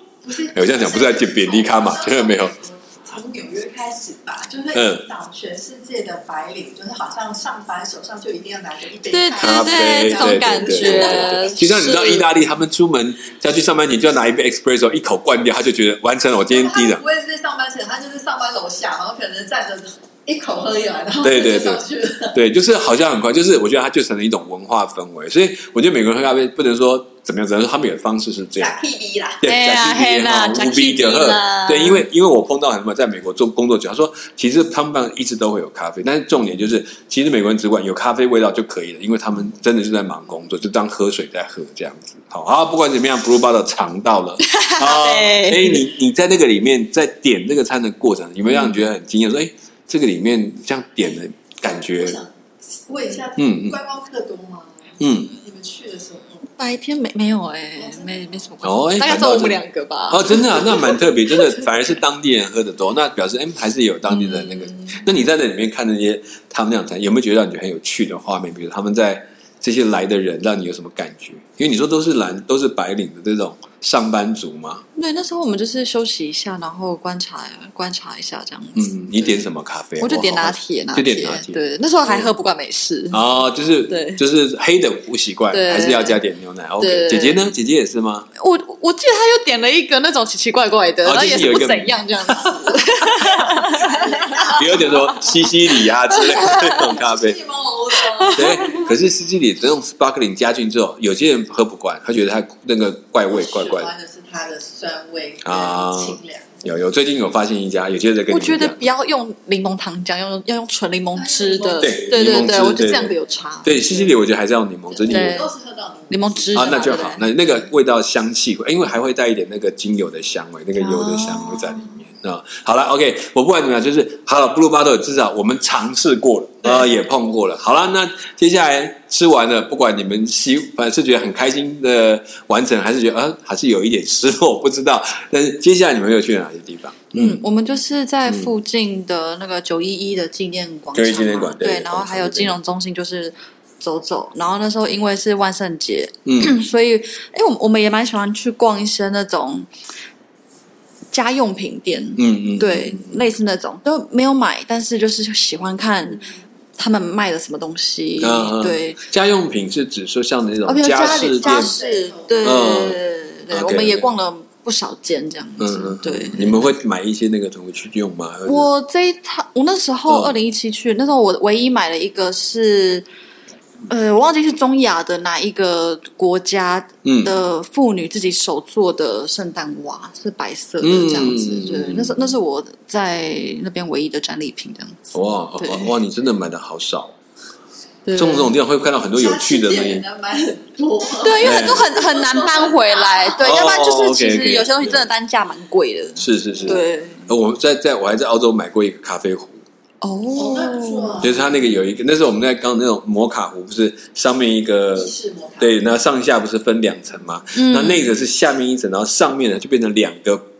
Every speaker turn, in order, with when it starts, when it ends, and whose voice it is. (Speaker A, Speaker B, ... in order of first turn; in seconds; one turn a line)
Speaker A: 0.2-11.6
Speaker B: 0.5-2.5
Speaker B: 4.7-5.1
Speaker C: 9.1-12.3
Speaker B: 9.4-17.0
Speaker A: 16.5-22.4
Speaker B: 21.2-28.8
Speaker A: 28.6-29.4
Speaker B: 29.4-52.2
Speaker C: 29.4-32.1
Speaker C: 44.4-45.8
Speaker C: 48.5-48.8
Speaker A: 51.8-56.5
Speaker B: 53.4-53.8
Speaker B: 55.0-55.3
Speaker C: 56.6-61.6
Speaker A: 57.8-58.5
Speaker B: 58.6-74.8
Speaker C: 64.1-65.0
Speaker C: 75.0-79.3
Speaker B: 78.8-82.3
Speaker C: 80.0-83.2
Speaker B: 83.1-88.3
Speaker C: 83.9-84.2
Speaker C: 85.5-86.2
Speaker C: 86.8-87.5
Speaker C: 88.4-95.0
Speaker B: 91.0-93.5
Speaker A: 93.9-95.0
Speaker B: 94.5-97.4
Speaker C: 96.1-96.8
Speaker A: 96.5-98.8
Speaker C: 98.1-98.8
Speaker B: 98.3-103.9
Speaker A: 103.3-106.7
Speaker B: 105.4-108.8
Speaker C: 108.3-114.1
Speaker A: 111.2-112.5
Speaker B: 111.8-113.1
Speaker B: 113.6-115.4
Speaker A: 114.9-117.0
Speaker C: 115.1-115.5
Speaker C: 116.1-117.3
Speaker B: 116.5-137.4
Speaker C: 120.8-121.9
Speaker C: 137.2-149.7
Speaker B: 140.9-142.6
Speaker B: 146.3-146.6
Speaker C: 151.1-159.0
Speaker B: 152.2-153.2
Speaker B: 158.2-161.7
Speaker C: 160.7-166.7
Speaker A: 160.9-162.8
Speaker B: 162.4-163.0
Speaker B: 163.5-164.1
Speaker B: 165.6-168.7
Speaker C: 168.5-173.1
Speaker B: 170.1-170.3
Speaker C: 173.9-185.9
Speaker B: 177.1-177.4
Speaker B: 180.8-182.3
Speaker B: 185.1-187.2
Speaker C: 188.1-188.5
Speaker B: 188.2-190.1
Speaker A: 189.1-193.4
Speaker C: 191.2-197.3
Speaker B: 191.4-191.9
Speaker B: 193.4-195.1
Speaker B: 196.2-199.6
Speaker A: 196.5-196.8
Speaker C: 200.0-201.3
Speaker A: 200.4-201.7
Speaker B: 201.2-210.4
Speaker A: 204.9-205.9
Speaker C: 207.5-208.1